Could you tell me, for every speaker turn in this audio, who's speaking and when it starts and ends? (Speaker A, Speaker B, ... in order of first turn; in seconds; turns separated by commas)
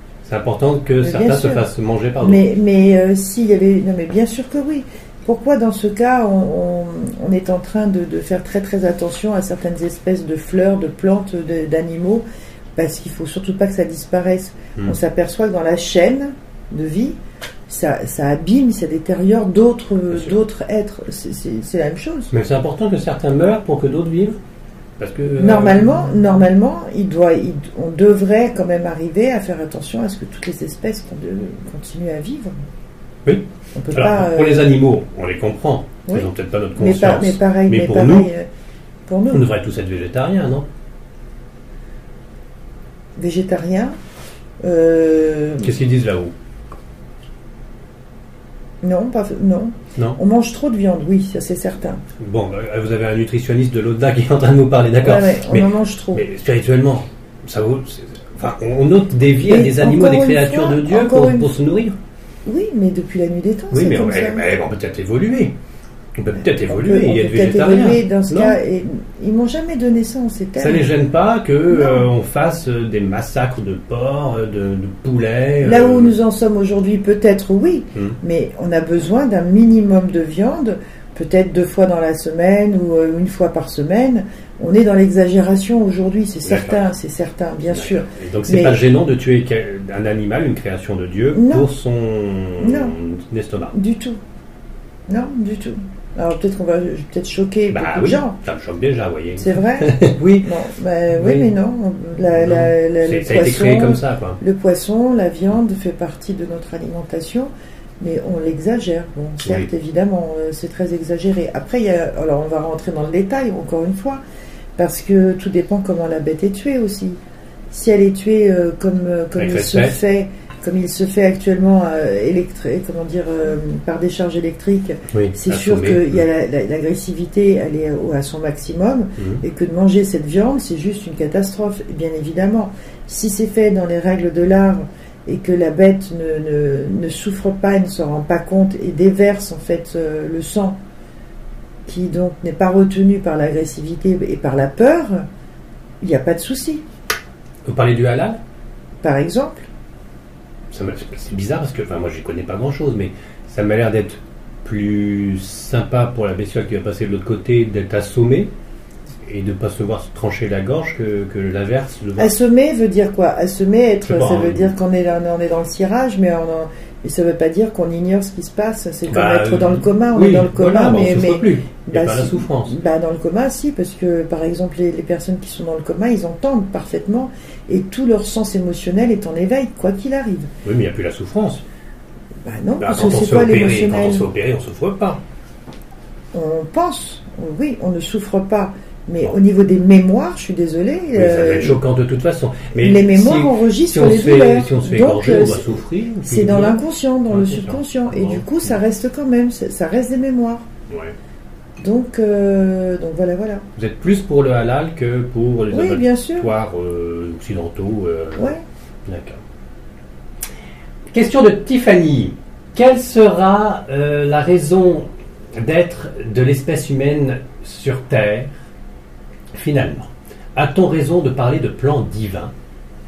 Speaker A: 0.2-2.5, Speaker B: 1.0-1.7, Speaker B: 2.2-12.2, Speaker B: 12.8-22.3, Speaker A: 22.3-24.4, Speaker A: 25.0-26.3, Speaker B: 25.4-32.6, Speaker A: 33.2-38.3, Speaker B: 33.7-34.7, Speaker B: 36.1-38.5, Speaker B: 39.0-39.5, Speaker A: 39.3-40.7, Speaker B: 43.2-43.9, Speaker B: 44.6-45.7, Speaker A: 45.6-46.3, Speaker B: 48.8-52.0, Speaker A: 52.2-62.0, Speaker B: 55.0-56.2, Speaker B: 59.4-61.5, Speaker B: 62.4-64.5, Speaker A: 63.7-65.5, Speaker A: 66.2-68.6, Speaker B: 66.3-70.9, Speaker A: 70.6-76.2, Speaker B: 71.7-72.1, Speaker B: 75.6-88.8, Speaker A: 86.4-86.8, Speaker A: 87.7-93.8, Speaker B: 91.3-91.7, Speaker B: 92.6-93.0, Speaker B: 93.7-94.2, Speaker B: 95.1-98.4, Speaker A: 97.7-100.5, Speaker B: 99.4-114.2, Speaker A: 101.1-101.5, Speaker A: 102.3-104.4, Speaker A: 109.4-109.7, Speaker B: 114.8-117.2, Speaker B: 117.7-140.8, Speaker A: 119.3-120.0, Speaker A: 125.1-126.2, Speaker A: 129.2-129.4, Speaker B: 141.8-145.2, Speaker B: 146.0-146.8, Speaker A: 147.6-148.4, Speaker B: 149.0-149.7, Speaker A: 150.7-158.5, Speaker A: 159.2-162.3, Speaker B: 162.2-180.5, Speaker A: 164.0-164.7, Speaker A: 169.1-172.7, Speaker A: 180.6-181.6, Speaker B: 182.4-184.2, Speaker A: 182.8-185.2, Speaker B: 186.3-191.8, Speaker A: 191.1-196.8, Speaker B: 192.7-200.6, Speaker A: 197.3-198.7, Speaker B: 201.8-203.7, Speaker A: 203.8-208.5, Speaker B: 205.7-206.5, Speaker A: 209.1-209.4, Speaker A: 211.1-218.5, Speaker A: 219.5-222.5